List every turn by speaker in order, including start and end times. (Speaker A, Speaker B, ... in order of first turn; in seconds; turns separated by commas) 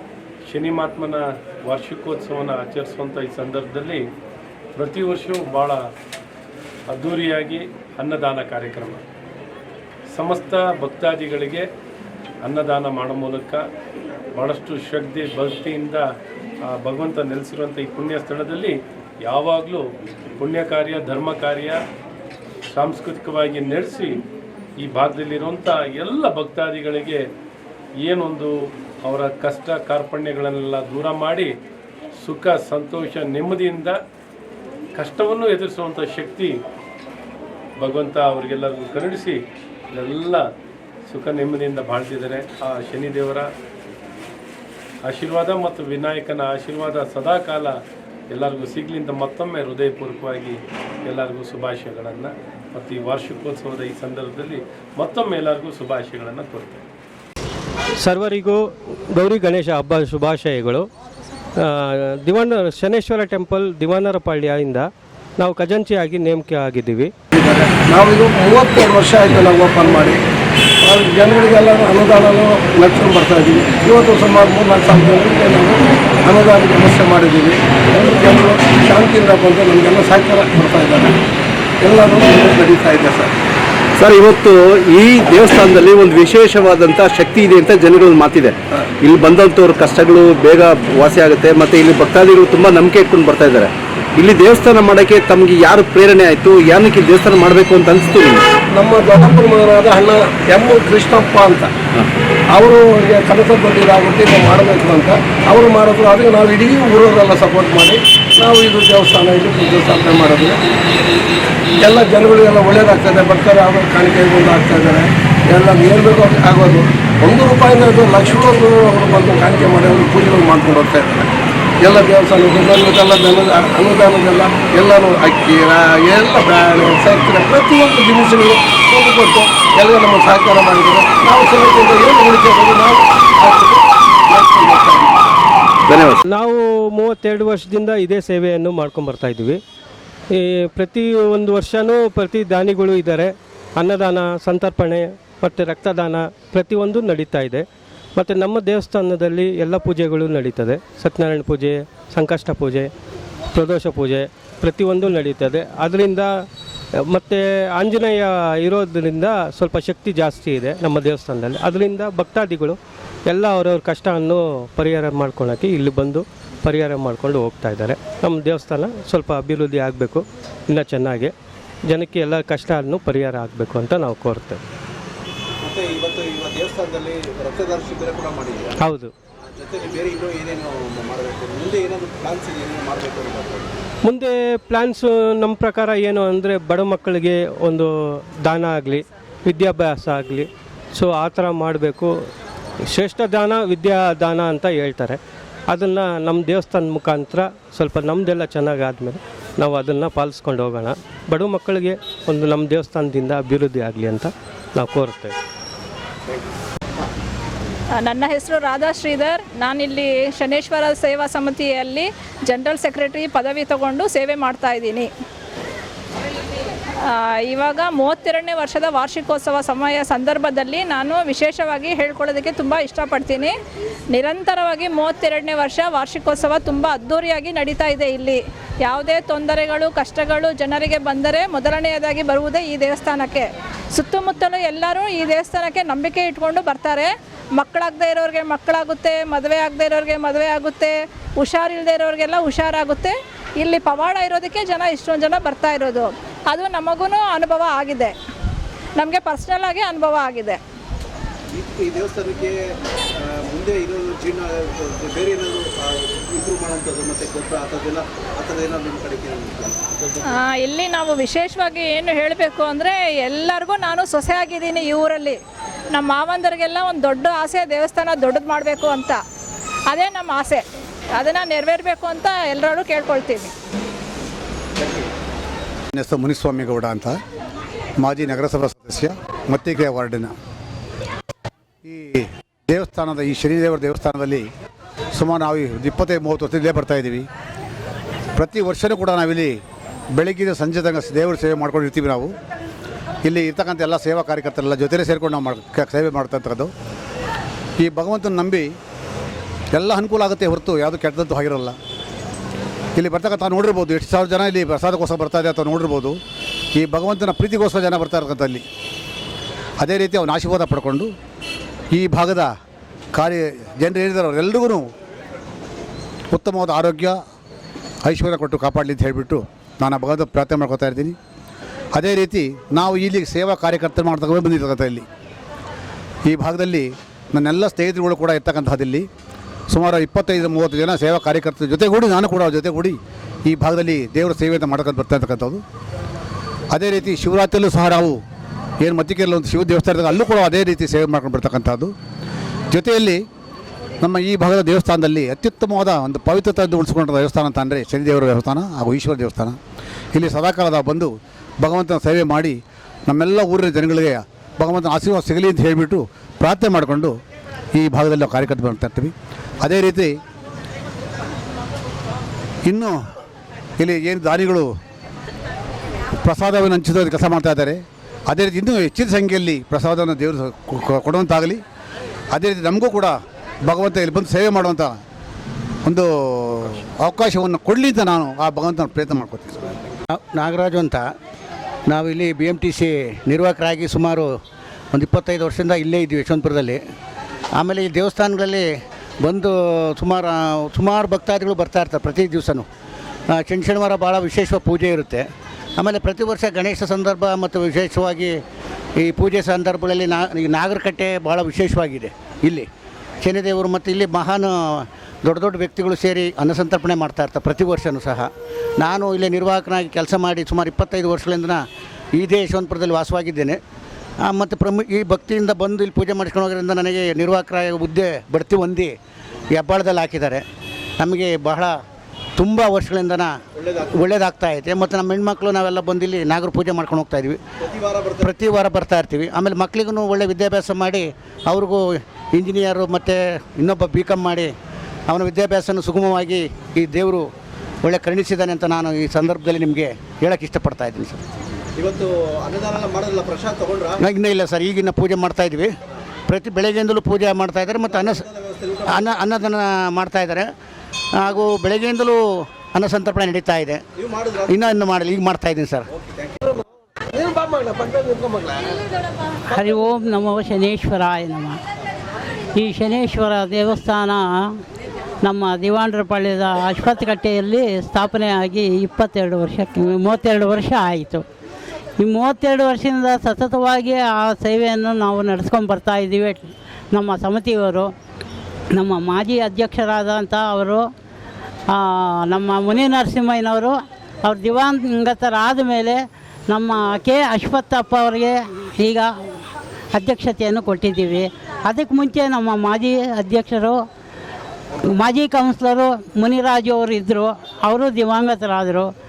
Speaker A: 0.5-4.0, Speaker A: 4.8-5.8, Speaker A: 6.9-9.0, Speaker A: 10.1-11.7, Speaker A: 12.4-13.6, Speaker A: 14.3-16.1, Speaker A: 16.7-18.8, Speaker A: 19.3-19.8, Speaker A: 20.4-21.8, Speaker A: 22.8-24.2, Speaker A: 24.8-27.2, Speaker A: 28.0-28.5, Speaker A: 29.1-31.5, Speaker A: 32.2-34.0, Speaker A: 35.0-36.5, Speaker A: 37.8-39.4, Speaker A: 39.9-40.4, Speaker A: 41.1-43.5, Speaker A: 45.1-47.8, Speaker A: 48.3-56.8, Speaker B: 58.0-60.9, Speaker B: 61.6-67.1, Speaker C: 67.3-70.2, Speaker C: 70.8-81.2, Speaker C: 81.8-83.3, Speaker D: 84.0-98.4, Speaker C: 98.7-101.7, Speaker C: 102.5-110.6, Speaker C: 111.8-121.3, Speaker C: 121.8-135.3, Speaker D: 135.9-136.2, Speaker B: 136.3-139.6, Speaker B: 140.3-152.9, Speaker B: 153.5-156.5, Speaker B: 157.0-171.3, Speaker B: 171.9-174.6, Speaker E: 175.7-178.7, Speaker B: 178.8-179.1, Speaker E: 179.6-183.7, Speaker B: 184.1-192.1, Speaker B: 192.9-205.4, Speaker F: 208.0-215.1, Speaker F: 217.0-223.5, Speaker F: 224.1-248.1, Speaker F: 249.0-250.6, Speaker E: 251.6-252.5, Speaker E: 253.5-259.8, Speaker F: 260.3-265.4, Speaker F: 265.9-269.2, Speaker F: 269.9-270.6, Speaker F: 271.2-273.5, Speaker G: 275.9-277.2, Speaker G: 278.0-280.3, Speaker G: 281.9-284.5, Speaker G: 285.1-287.3, Speaker G: 288.4-289.6, Speaker G: 290.2-292.3, Speaker G: 293.2-296.7, Speaker G: 297.8-298.7, Speaker G: 299.7-301.8, Speaker G: 302.9-306.2, Speaker G: 306.8-308.6, Speaker G: 309.8-311.1, Speaker G: 311.9-312.5, Speaker G: 313.1-314.9, Speaker G: 316.3-317.2, Speaker G: 318.1-321.2, Speaker G: 321.9-325.1, Speaker G: 326.3-329.1, Speaker G: 329.7-335.6, Speaker G: 336.7-338.2, Speaker G: 338.8-341.9, Speaker G: 342.7-343.2, Speaker G: 344.0-349.6, Speaker G: 350.1-352.6, Speaker G: 353.1-357.1, Speaker G: 357.8-360.2, Speaker G: 362.7-363.0, Speaker G: 363.8-364.7, Speaker G: 366.2-371.6, Speaker G: 372.3-373.2, Speaker G: 373.7-375.0, Speaker G: 375.9-379.7, Speaker H: 380.1-381.1, Speaker H: 381.9-384.3, Speaker H: 384.9-386.8, Speaker H: 387.6-388.6, Speaker H: 389.2-392.7, Speaker H: 393.3-395.3, Speaker H: 395.8-398.4, Speaker H: 399.0-402.7, Speaker H: 403.2-408.3, Speaker H: 408.8-411.6, Speaker H: 412.1-413.6, Speaker H: 414.3-418.9, Speaker H: 419.5-420.4, Speaker H: 421.0-421.7, Speaker H: 422.4-423.3, Speaker H: 423.9-427.4, Speaker E: 427.7-428.2, Speaker H: 428.2-431.8, Speaker H: 432.3-434.5, Speaker H: 435.1-437.2, Speaker H: 437.8-441.2, Speaker E: 441.8-444.0, Speaker H: 444.0-445.7, Speaker H: 446.3-448.3, Speaker E: 447.9-448.8, Speaker H: 448.9-450.5, Speaker H: 451.2-453.8, Speaker E: 454.0-454.4, Speaker H: 454.5-455.9, Speaker C: 457.1-458.7, Speaker I: 459.5-461.6, Speaker I: 462.6-464.2, Speaker I: 465.2-471.2, Speaker I: 472.0-477.9, Speaker I: 478.8-480.8, Speaker I: 481.8-483.7, Speaker I: 484.3-486.0, Speaker I: 486.5-489.1, Speaker I: 489.9-493.8, Speaker I: 495.0-498.9